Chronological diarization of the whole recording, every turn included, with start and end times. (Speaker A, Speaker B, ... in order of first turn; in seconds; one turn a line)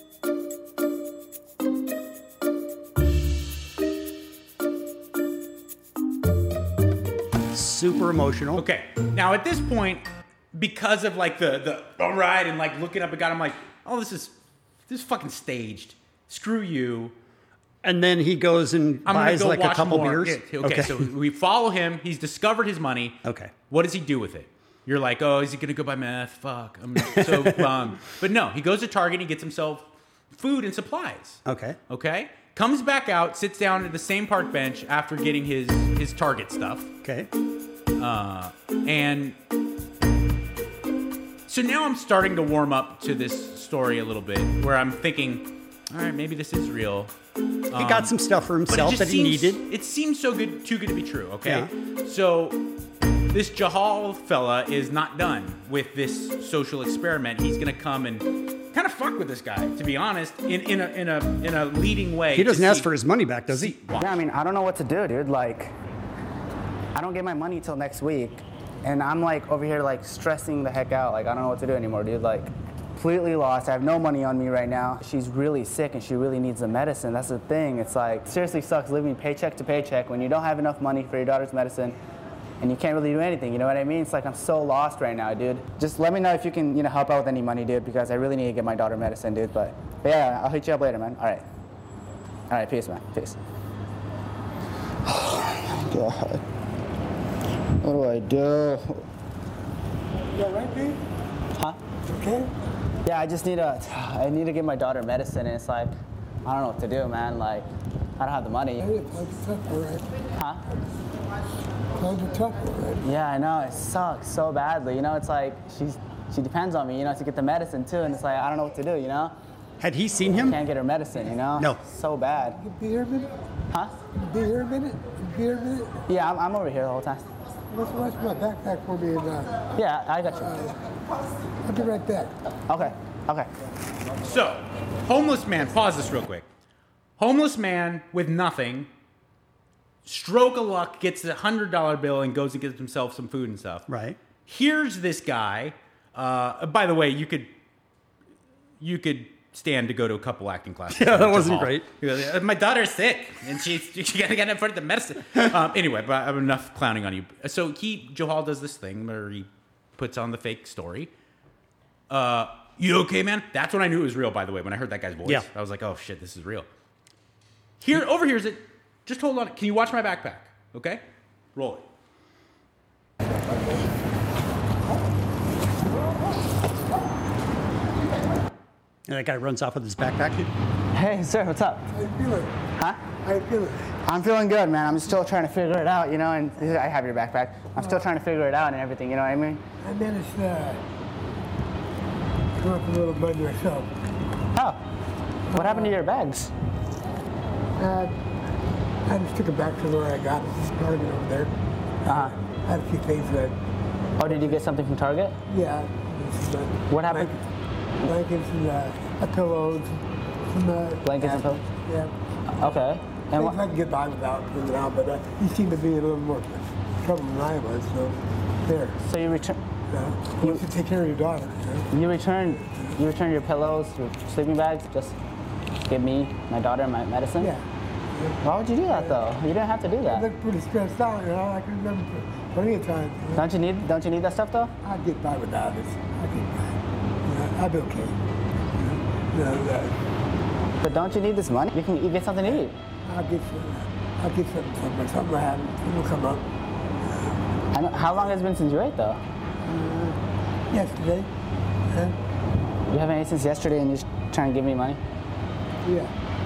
Speaker A: 7.5-8.7
Speaker B: 8.6-14.3
Speaker B: 14.9-17.1
Speaker A: 17.8-21.1
Speaker B: 19.1-23.2
Speaker A: 23.2-23.5
Speaker B: 23.7-36.9
Speaker A: 27.0-27.7
Speaker A: 31.5-31.8
Speaker A: 37.0-37.3
Speaker B: 38.0-39.4
Speaker B: 41.5-47.1
Speaker B: 47.7-48.1
Speaker A: 47.8-49.6
Speaker B: 48.7-52.6
Speaker A: 51.4-51.7
Speaker B: 53.3-62.9
Speaker A: 62.3-63.8
Speaker B: 63.5-64.2
Speaker C: 64.0-65.7
Speaker C: 66.9-82.0
Speaker C: 82.6-91.4
Speaker C: 92.5-93.4
Speaker C: 95.1-96.4
Speaker C: 97.8-99.0
Speaker D: 100.3-101.0
Speaker D: 102.1-102.5
Speaker C: 103.0-105.9
Speaker C: 106.5-107.7
Speaker C: 108.2-108.8
Speaker D: 108.8-110.1
Speaker C: 110.3-110.6
Speaker D: 112.0-113.0
Speaker C: 113.0-119.3
Speaker A: 119.8-120.6
Speaker C: 120.5-122.6
Speaker D: 122.5-123.3
Speaker D: 124.1-126.0
Speaker C: 126.1-127.2
Speaker D: 127.7-129.7
Speaker C: 129.8-130.6
Speaker D: 130.4-130.7
Speaker D: 131.7-132.3
Speaker C: 132.7-133.5
Speaker B: 134.2-136.5
Speaker B: 137.2-138.9
Speaker B: 140.1-143.8
Speaker A: 143.9-144.2
Speaker B: 144.5-147.5
Speaker B: 148.8-161.1
Speaker A: 150.9-151.9
Speaker B: 162.1-166.7
Speaker B: 167.8-171.0
Speaker B: 171.6-171.8
Speaker A: 179.1-180.5
Speaker C: 180.9-181.8
Speaker D: 181.9-182.6
Speaker D: 183.2-183.9
Speaker C: 184.1-189.6
Speaker D: 187.8-188.0
Speaker D: 189.8-190.8
Speaker D: 192.6-193.9
Speaker C: 194.6-194.8
Speaker D: 195.5-196.0
Speaker C: 195.5-196.5
Speaker D: 197.8-198.2
Speaker D: 199.1-201.5
Speaker C: 202.1-202.3
Speaker D: 202.1-203.6
Speaker C: 204.2-205.4
Speaker D: 204.2-204.6
Speaker D: 205.5-207.4
Speaker C: 206.9-207.3
Speaker D: 208.0-212.1
Speaker C: 211.0-211.6
Speaker C: 212.5-213.6
Speaker D: 213.2-219.0
Speaker C: 219.0-219.6
Speaker D: 219.9-221.9
Speaker C: 221.9-225.2
Speaker D: 222.6-222.9
Speaker C: 225.9-227.5
Speaker D: 227.4-229.2
Speaker C: 228.4-230.3
Speaker D: 230.1-233.4
Speaker C: 233.4-234.7
Speaker D: 234.8-238.2
Speaker D: 238.8-240.0
Speaker C: 240.8-242.7
Speaker D: 242.4-246.4
Speaker C: 247.7-249.2
Speaker D: 249.7-250.2
Speaker D: 250.7-251.3
Speaker D: 251.9-252.2
Speaker C: 252.9-255.0
Speaker D: 255.8-256.1